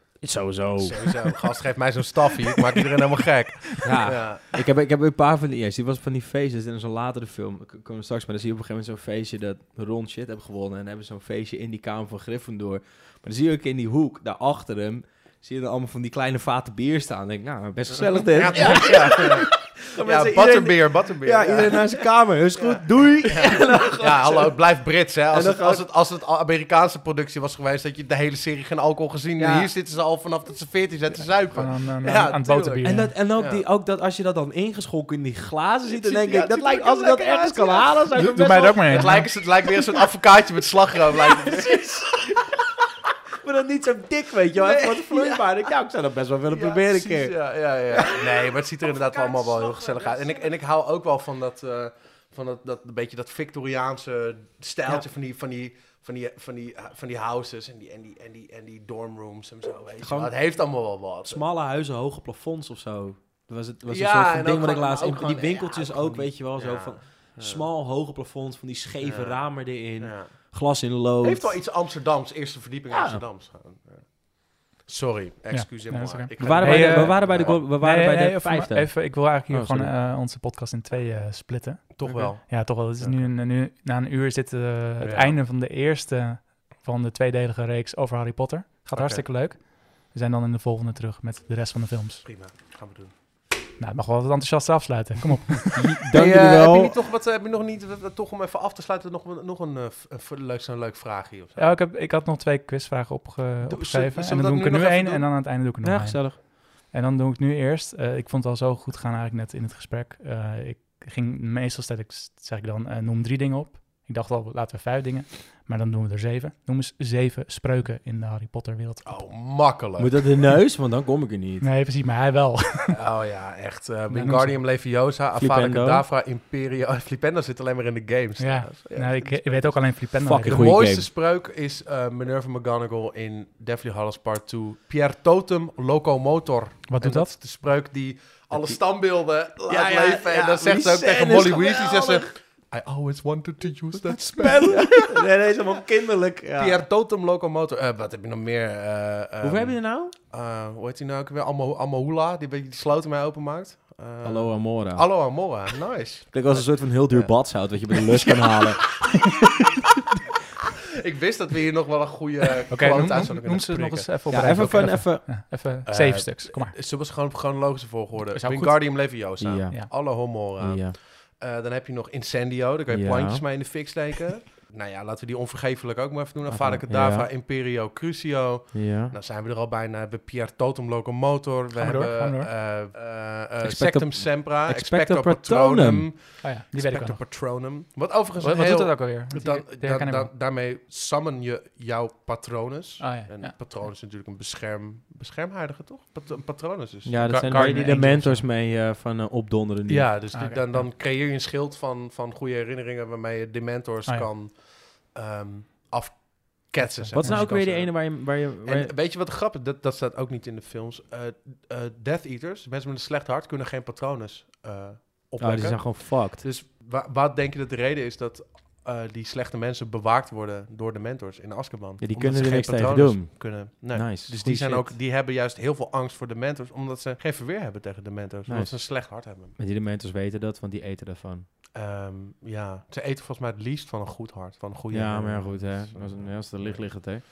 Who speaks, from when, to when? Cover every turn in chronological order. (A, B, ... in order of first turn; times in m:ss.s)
0:00.2-0:01.4 A
0:00.8-0:04.5 B
0:03.8-0:24.6 A
0:18.2-0:33.6 B
0:25.3-0:25.9 A
0:29.4-0:29.7 A
0:31.5-0:33.2 C
0:32.8-0:39.3 A
0:35.9-0:38.1 B
0:38.2-0:39.2 C
0:38.9-0:42.6 B
0:43.4-0:47.4 A
0:44.5-0:45.7 B
0:46.5-1:01.4 B
0:47.9-0:50.5 A
1:00.0-1:00.3 A
1:01.2-1:11.6 A
1:03.9-1:07.6 B
1:09.0-1:10.4 B
1:11.2-1:17.6 B
1:12.9-1:13.2 A
1:15.5-1:32.3 C
1:16.4-1:19.9 A
1:22.0-1:23.3 B
1:25.0-1:25.4 B
1:28.9-1:29.2 B
1:32.2-1:33.1 B
1:33.8-1:36.0 C
1:35.7-1:36.9 A
1:36.1-1:41.8 B
1:41.6-1:59.2 C
1:43.6-1:45.3 B
1:45.8-1:46.4 A
1:59.0-2:00.4 B
2:00.0-2:01.7 A
2:01.6-2:03.0 C
2:02.9-2:25.1 B
2:04.1-2:04.6 C
2:05.4-2:06.0 A
2:08.4-2:10.8 C
2:10.2-2:11.1 A
2:16.9-2:17.3 C
2:19.7-2:22.3 A
2:24.4-2:26.8 A
2:26.6-2:38.6 B
2:29.4-2:30.1 A
2:34.2-2:35.1 A
2:36.3-2:39.2 A
2:41.0-2:44.1 B
2:42.7-2:46.8 C
2:44.3-2:45.3 A
2:45.9-3:17.9 B
2:48.3-2:49.9 C
2:49.4-2:51.0 A
2:52.9-2:53.5 A
2:56.5-2:57.3 A
2:58.7-2:59.2 A
3:01.8-3:02.5 C
3:03.6-3:06.1 A
3:06.4-3:07.3 C
3:08.4-3:10.3 C
3:13.0-3:13.7 C
3:17.1-3:20.1 A
3:17.2-3:18.5 C
3:19.9-3:49.6 B
3:20.3-3:20.9 C
3:26.8-3:27.4 C
3:27.2-3:28.9 A
3:35.4-3:36.4 A
3:42.0-3:45.0 A
3:48.5-3:51.5 A
3:51.7-3:56.9 B
3:54.9-3:57.2 A